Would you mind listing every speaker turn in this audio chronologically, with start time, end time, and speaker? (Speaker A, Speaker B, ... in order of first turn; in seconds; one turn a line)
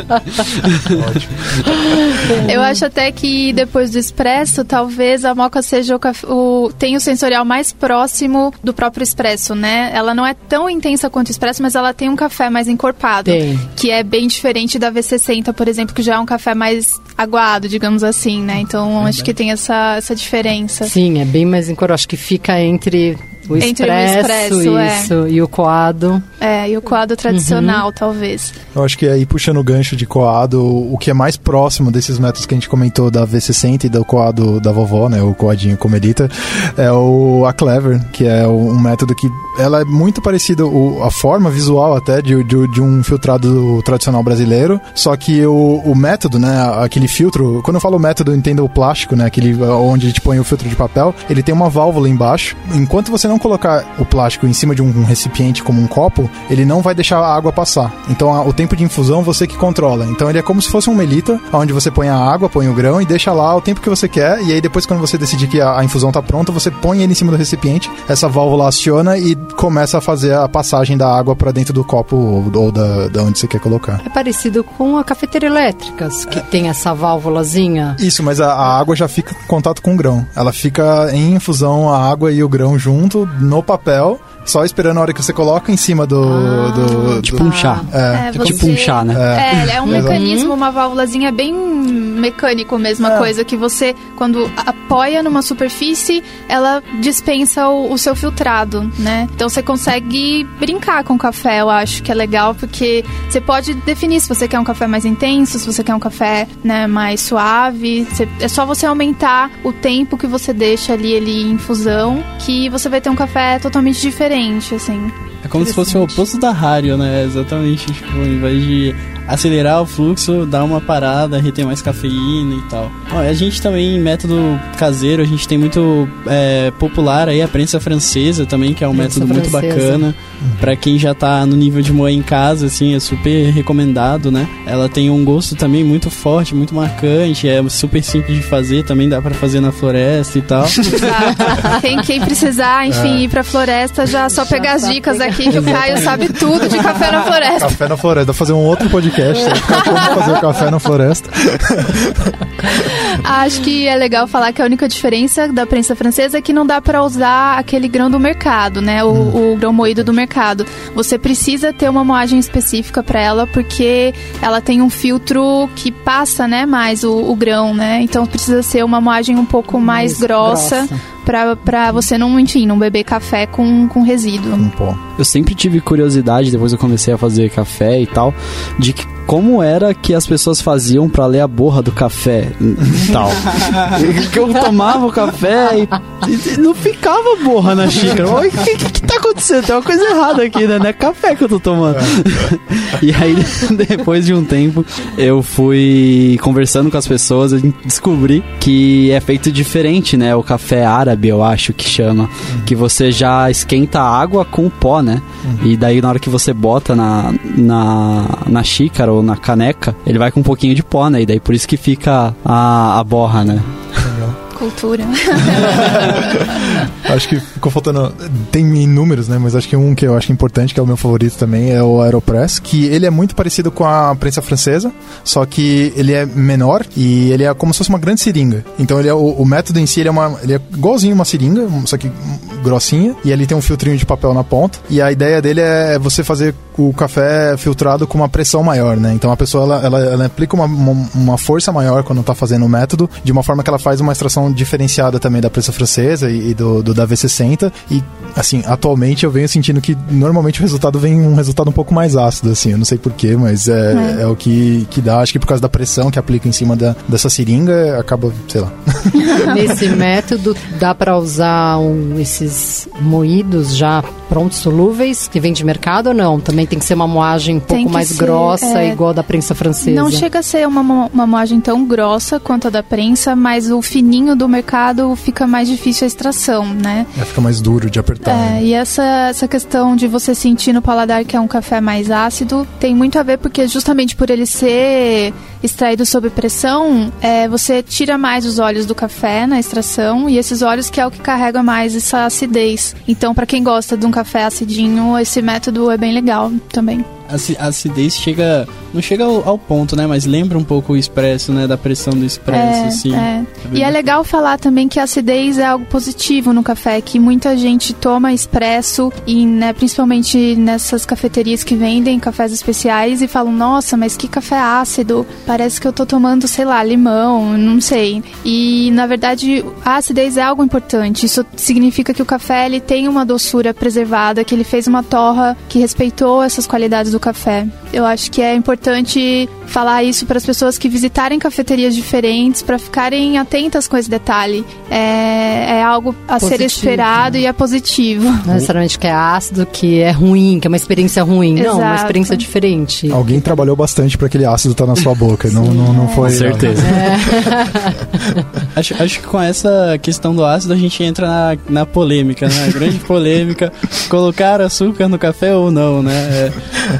Speaker A: 0.9-2.3
Speaker B: 1.9-2.6
Speaker C: 2.4-20.9
Speaker B: 13.2-13.7
Speaker B: 20.8-26.3
Speaker C: 23.6-25.1
Speaker C: 26.4-28.6
Speaker B: 27.3-27.9
Speaker A: 28.8-74.0
Speaker B: 74.0-78.0
Speaker A: 78.0-90.2
Speaker B: 86.3-87.9
Speaker D: 87.2-89.8
Speaker C: 88.1-115.1
Speaker B: 89.9-90.5
Speaker E: 115.4-141.0
Speaker B: 128.9-130.1
Speaker A: 130.4-130.8
Speaker C: 140.8-147.8
Speaker A: 142.9-143.3
Speaker B: 144.3-147.1
Speaker A: 147.6-152.4
Speaker C: 149.6-150.1
Speaker C: 152.8-174.7
Speaker B: 169.8-171.0
Speaker A: 174.6-175.0
Speaker D: 175.2-214.0
Speaker A: 214.0-214.4
Speaker C: 214.5-216.5
Speaker A: 215.5-259.9
Speaker C: 253.9-254.2
Speaker B: 259.4-270.3
Speaker C: 267.7-269.0
Speaker C: 269.8-277.1
Speaker A: 277.2-278.6
Speaker C: 278.2-297.1
Speaker E: 297.3-304.1
Speaker C: 302.5-338.5
Speaker B: 336.4-337.1
Speaker B: 338.4-343.6
Speaker C: 341.6-342.4
Speaker A: 343.1-347.6
Speaker B: 345.5-348.3
Speaker C: 345.9-346.6
Speaker D: 346.2-347.0
Speaker E: 348.8-356.6